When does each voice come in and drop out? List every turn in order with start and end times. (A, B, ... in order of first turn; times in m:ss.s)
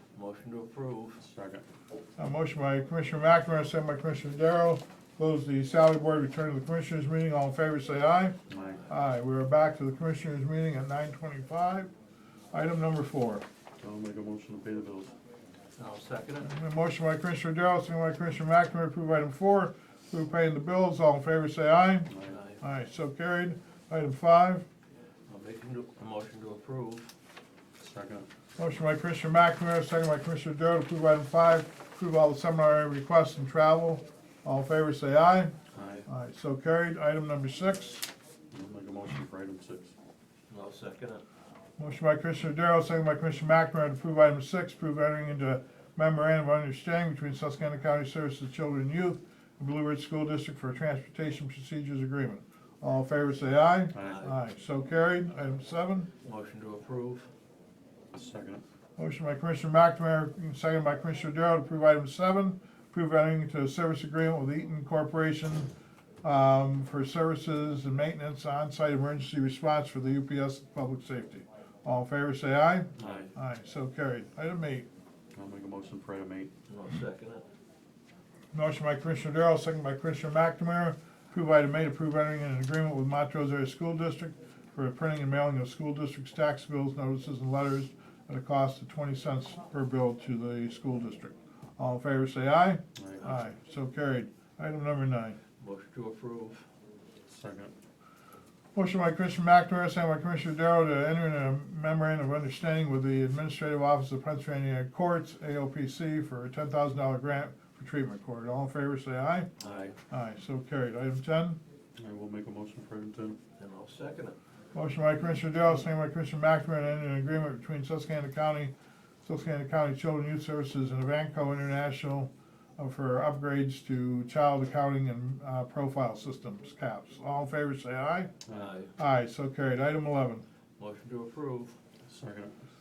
0:00.1-0:01.2 A
0:01.2-0:01.6 B
0:02.2-0:08.4 C
0:08.5-0:08.8 B
0:08.9-0:11.9 C
0:12.5-0:13.4 C
0:13.8-0:15.1 B
0:15.8-0:16.5 A
0:16.4-0:24.6 C
0:22.2-0:22.6 A
0:25.3-0:27.1 A
0:27.8-0:28.3 B
0:28.6-0:35.5 C
0:35.8-0:36.0 B
0:36.0-0:38.1 C
0:38.5-0:39.9 B
0:40.5-0:41.2 A
0:41.8-0:56.1 C
0:53.9-0:54.2 B
0:54.0-0:54.3 A
0:56.2-0:57.3 A
0:58.1-0:58.6 B
0:59.0-1:05.7 C
1:06.2-1:14.8 C
1:13.0-1:13.3 A
1:15.3-1:16.5 B
1:16.7-1:17.4 A
1:18.5-1:35.4 C
1:33.0-1:33.2 B
1:35.6-1:36.6 A
1:37.3-1:37.7 B
1:38.7-1:49.5 C
1:49.6-1:50.0 A
1:50.1-1:51.6 C
1:52.0-1:53.4 B
1:53.6-1:54.4 A
1:54.7-1:58.7 C
1:59.2-2:08.3 C
2:08.5-2:08.9 A
2:09.0-2:10.4 C
2:10.8-2:11.8 A
2:12.1-2:12.5 B